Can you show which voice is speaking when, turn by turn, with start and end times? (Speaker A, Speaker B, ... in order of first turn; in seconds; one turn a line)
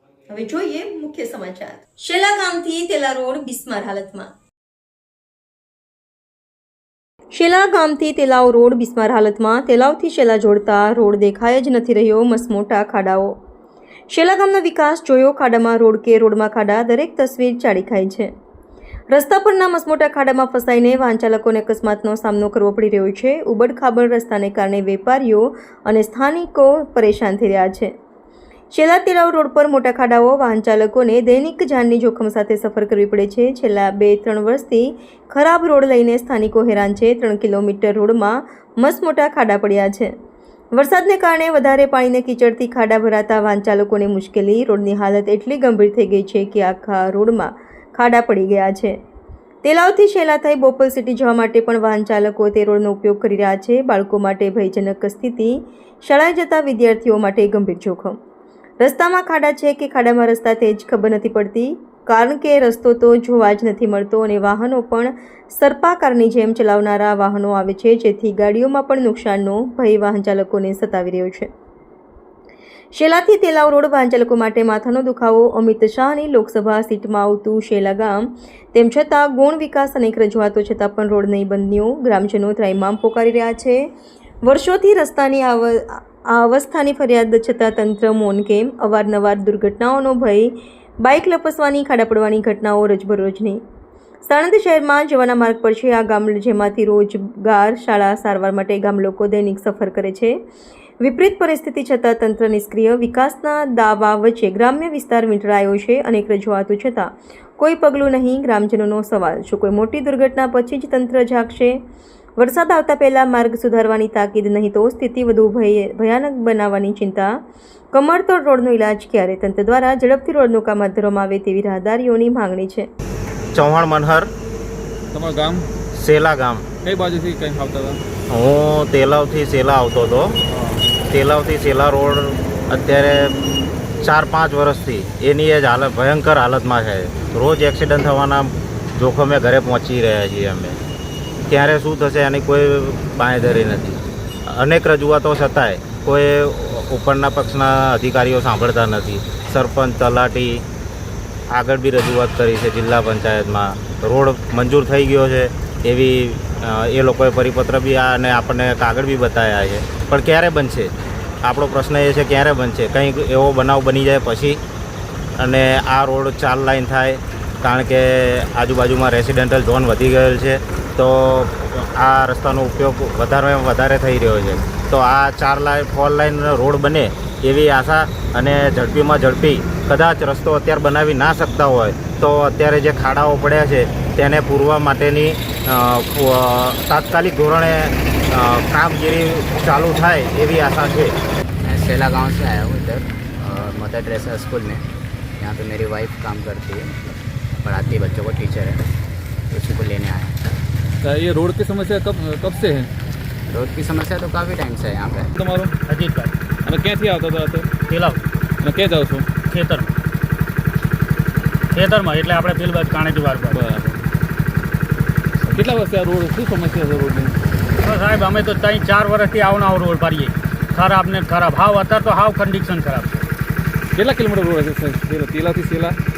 Speaker A: 0.3-4.3
Speaker A: 7.3-13.3
Speaker A: 14.1-18.3
Speaker A: 19.1-27.9
Speaker A: 28.7-40.1
Speaker A: 40.7-49.0
Speaker A: 49.6-58.2
Speaker A: 58.8-71.5
Speaker A: 72.9-83.8
Speaker A: 84.4-93.6
Speaker A: 94.2-100.3
Speaker A: 101.0-111.8
Speaker A: 112.4-117.4
Speaker A: 117.9-122.9
Speaker B: 123.5-124.3
Speaker C: 125.1-125.7
Speaker B: 126.0-126.6
Speaker C: 126.8-128.0
Speaker B: 128.3-130.3
Speaker C: 130.5-130.8
Speaker B: 131.1-133.3
Speaker B: 134.0-140.8
Speaker B: 141.5-150.6
Speaker B: 151.5-160.9
Speaker B: 161.4-164.6
Speaker B: 165.4-191.1
Speaker D: 191.6-194.8
Speaker D: 195.4-198.8
Speaker D: 199.5-200.4
Speaker C: 201.0-202.9
Speaker D: 203.5-205.3
Speaker C: 205.3-205.7
Speaker E: 205.9-206.3
Speaker C: 206.6-207.7
Speaker E: 207.9-208.2
Speaker C: 208.6-209.3
Speaker E: 209.5-209.9
Speaker E: 211.7-213.6
Speaker C: 213.5-214.0
Speaker C: 215.5-217.3
Speaker E: 217.8-223.2
Speaker C: 223.9-226.0